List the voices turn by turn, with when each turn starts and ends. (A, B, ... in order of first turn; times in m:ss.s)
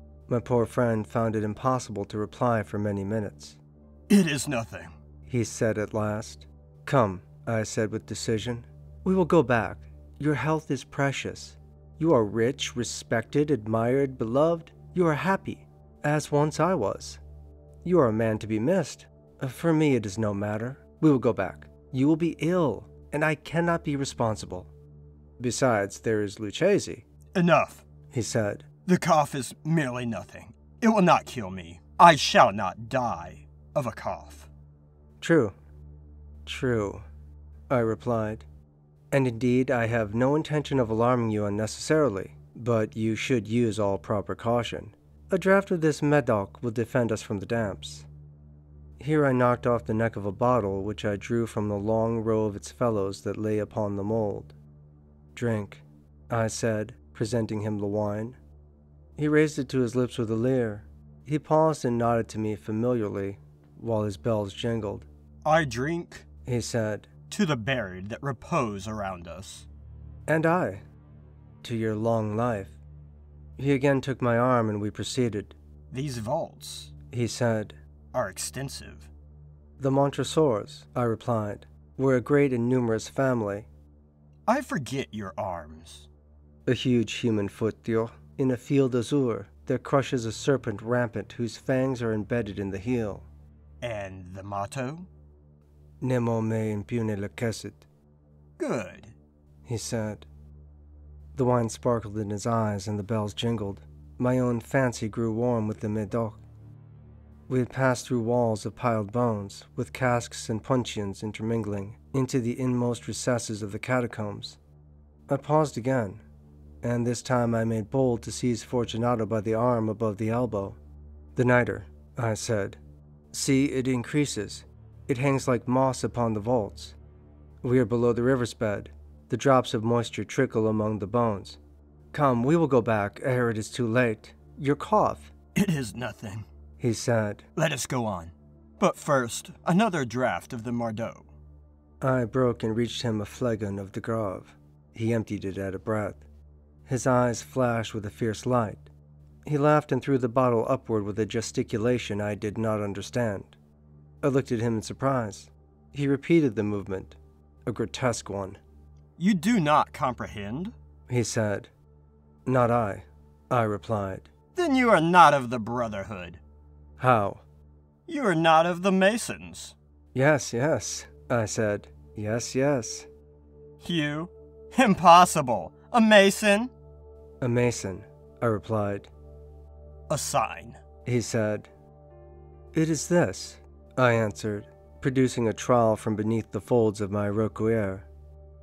0:00.3-0:03.6 A
0:04.1-0:04.9 B
0:05.2-0:17.2 A
0:17.8-0:24.7 A
0:25.4-0:27.0 A
0:27.3-0:27.8 B
0:28.1-0:28.6 A
0:28.9-0:34.5 B
0:35.2-0:35.6 A
0:36.4-0:37.0 A
0:37.7-0:38.5 A
0:39.1-0:48.1 A
0:49.0-0:54.6 A
0:55.3-0:58.4 A
0:59.2-1:05.1 A
1:05.4-1:06.2 B
1:06.4-1:07.1 A
1:07.3-1:09.7 B
1:10.3-1:10.8 A
1:11.6-1:12.8 A
1:13.6-1:15.6 A
1:15.9-1:16.9 B
1:17.1-1:17.8 A
1:18.1-1:19.1 B
1:19.8-1:23.7 A
1:24.5-1:26.1 B
1:26.6-1:33.2 A
1:33.8-1:35.1 B
1:36.0-1:37.9 A
1:38.6-1:39.1 B
1:39.6-1:40.3 A
1:41.3-1:46.4 A
1:47.5-1:54.6 A
1:55.3-1:56.2 A
1:56.8-2:00.8 A
2:01.3-2:02.8 A
2:03.3-2:07.0 A
2:07.6-2:11.6 A
2:12.1-2:15.3 A
2:15.6-2:16.4 B
2:16.8-2:17.4 A
2:17.6-2:21.3 B
2:22.0-2:26.2 A
2:26.9-2:28.9 A
2:29.4-2:33.6 A
2:34.2-2:38.6 A
2:39.2-2:40.7 B
2:41.1-2:41.7 A
2:42.4-2:44.3 A
2:44.6-2:46.4 B
2:47.0-2:47.4 A
2:48.1-2:49.8 B
2:50.1-2:53.1 A
2:53.8-2:56.7 B
2:57.4-2:59.1 A
3:00.1-3:00.8 B
3:01.0-3:01.7 A
3:02.7-3:08.1 A